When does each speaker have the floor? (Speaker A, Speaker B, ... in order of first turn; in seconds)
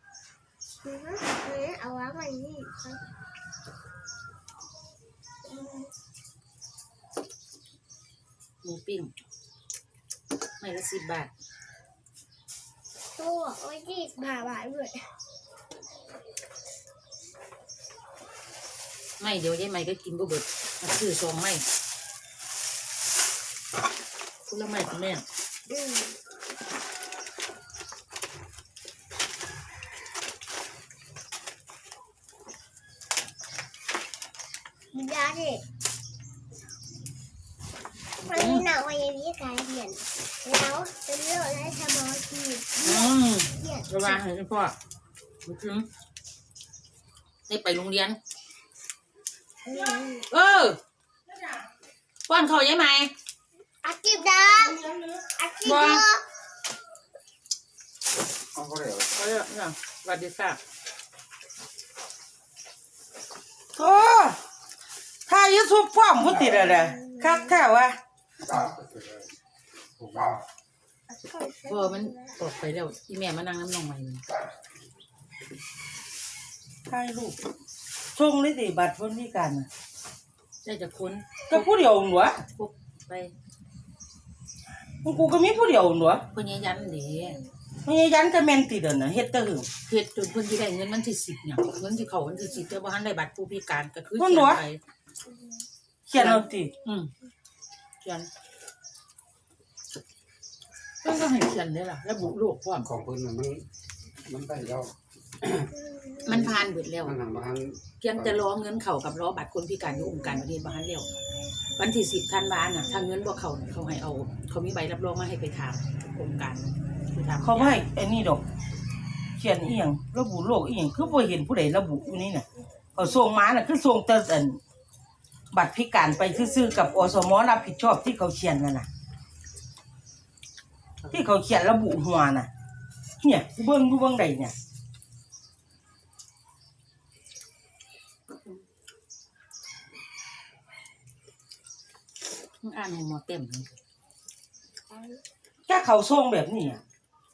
Speaker A: 0.8-3.0, 5.4-5.9, 13.2-15.1, 25.7-26.1, 34.9-35.6, 38.2-44.2, 49.6-50.3, 53.8-54.8, 55.4-56.2, 66.4-67.3, 71.1-72.4, 144.9-145.2
Speaker B: 8.6-9.1, 10.6-11.3, 19.2-21.6, 24.5-25.2, 38.2-38.7, 42.8-44.7, 45.4-45.9, 47.5-48.2, 50.2-50.8, 52.3-53.1, 55.6-56.0, 59.1-60.6, 71.7-74.2, 80.6-81.8, 82.4-83.3, 86.3-87.4, 89.8-94.8, 96.1-97.1, 98.0-98.3, 101.0-102.9, 106.2-107.2, 108.0-111.1, 111.8-117.8, 142.6-143.7
Speaker C: 54.5-55.2, 63.7-64.4, 65.3-68.0, 76.9-77.4, 78.1-79.7, 81.5-82.4, 85.0-86.2, 87.8-89.7, 94.2-94.6, 96.1-96.7, 117.4-118.4, 119.4-124.6, 125.5-128.9, 131.1-132.5, 133.2-134.5, 145.7-146.8
Speaker D: 58.5-59.1, 68.4-69.3, 70.0-70.4, 102.7-103.7, 104.2-106.5, 107.0-108.5